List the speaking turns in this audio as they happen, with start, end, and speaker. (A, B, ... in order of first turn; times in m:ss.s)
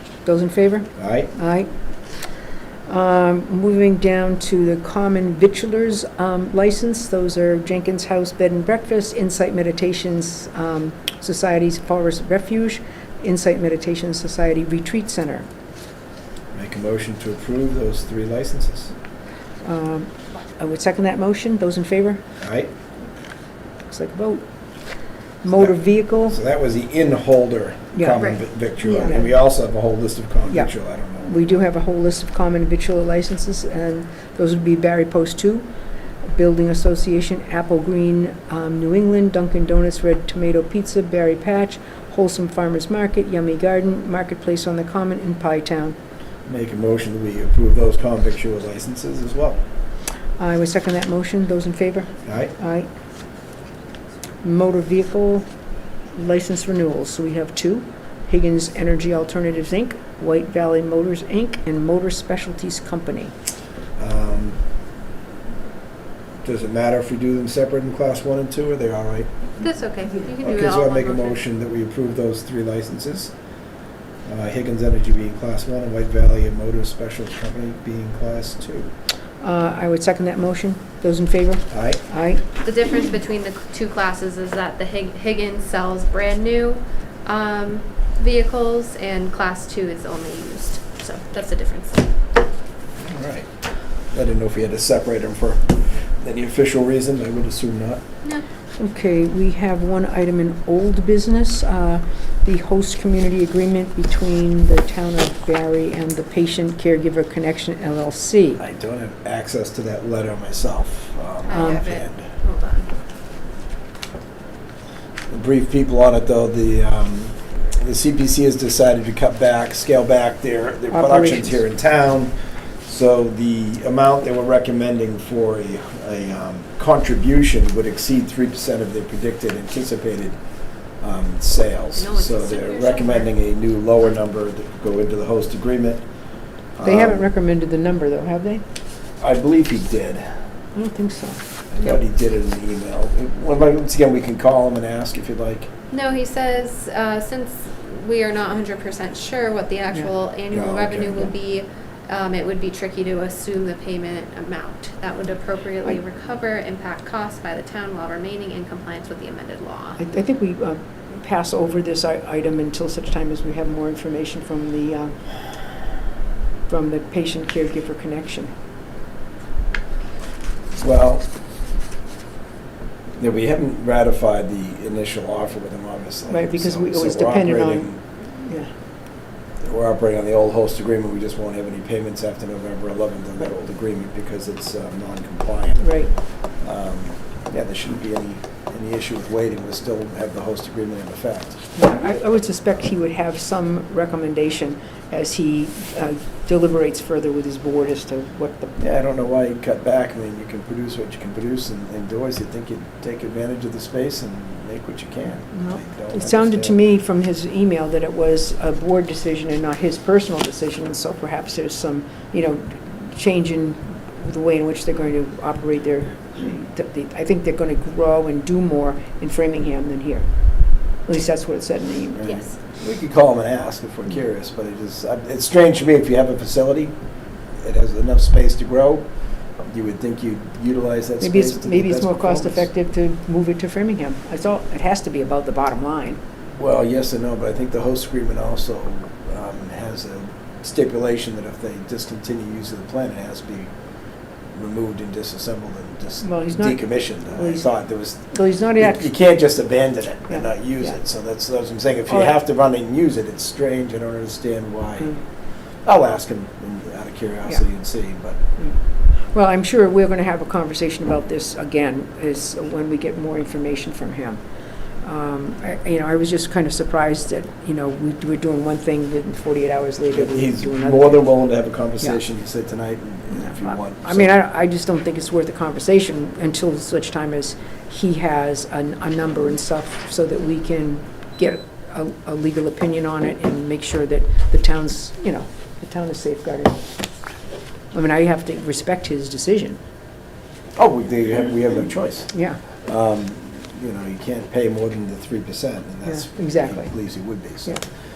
0:00.2-0:01.7 A
0:01.0-0:01.3 B
0:02.9-0:15.5 A
0:16.5-0:18.9 B
0:19.6-0:22.2 A
0:22.4-0:22.7 B
0:23.9-0:24.4 A
0:25.4-0:26.4 A
0:25.5-0:25.8 B
0:26.3-0:31.6 B
0:27.9-0:28.2 A
0:28.8-0:29.2 A
0:31.2-0:35.6 A
0:36.3-0:46.0 A
0:46.4-0:49.6 B
0:50.4-0:52.9 A
0:52.2-0:52.5 B
0:54.4-0:55.4 A
0:56.1-1:03.3 A
1:04.0-1:04.6 B
1:06.4-1:09.3 B
1:09.6-1:11.4 C
1:10.4-1:13.3 B
1:14.2-1:18.9 B
1:19.4-1:22.4 A
1:21.7-1:22.0 B
1:22.6-1:32.0 C
1:33.0-1:33.5 B
1:34.1-1:38.0 B
1:38.8-1:48.6 A
1:48.6-1:52.2 B
1:51.4-1:52.9 C
1:51.5-1:51.8 A
1:55.3-2:02.3 B
2:00.9-2:01.6 A
2:02.8-2:10.4 B
2:11.0-2:16.0 B
2:11.9-2:13.3 C
2:16.8-2:17.2 B
2:16.8-2:18.6 A
2:19.2-2:20.3 B
2:20.7-2:21.4 A
2:21.7-2:25.7 B
2:25.9-2:40.0 C
2:30.5-2:31.3 B
2:40.0-2:45.2 A
2:46.7-2:48.5 A
2:50.8-2:51.2 B
2:53.2-2:58.0 B
2:56.3-2:58.7 A
2:59.6-3:05.8 B
3:05.8-3:06.1 A
3:06.6-3:11.6 B
3:11.8-3:18.8 A
3:18.8-3:26.8 B
3:25.5-3:40.3 A
3:41.0-3:42.4 A
3:42.2-3:46.9 B
3:47.6-3:49.0 B
3:49.6-3:52.7 B
3:51.2-3:56.2 A
3:56.6-4:03.7 B
4:04.5-4:15.2 B
4:06.2-4:07.7 A
4:08.3-4:09.1 A
4:10.3-4:10.9 A
4:15.8-4:18.4 B
4:19.3-4:24.4 A
4:25.0-4:31.3 A
4:30.1-4:34.4 B
4:33.3-4:46.9 A
4:47.9-4:49.8 A
4:50.8-4:52.3 B
4:52.3-4:52.6 A
4:52.8-4:57.8 B
4:56.0-4:56.9 A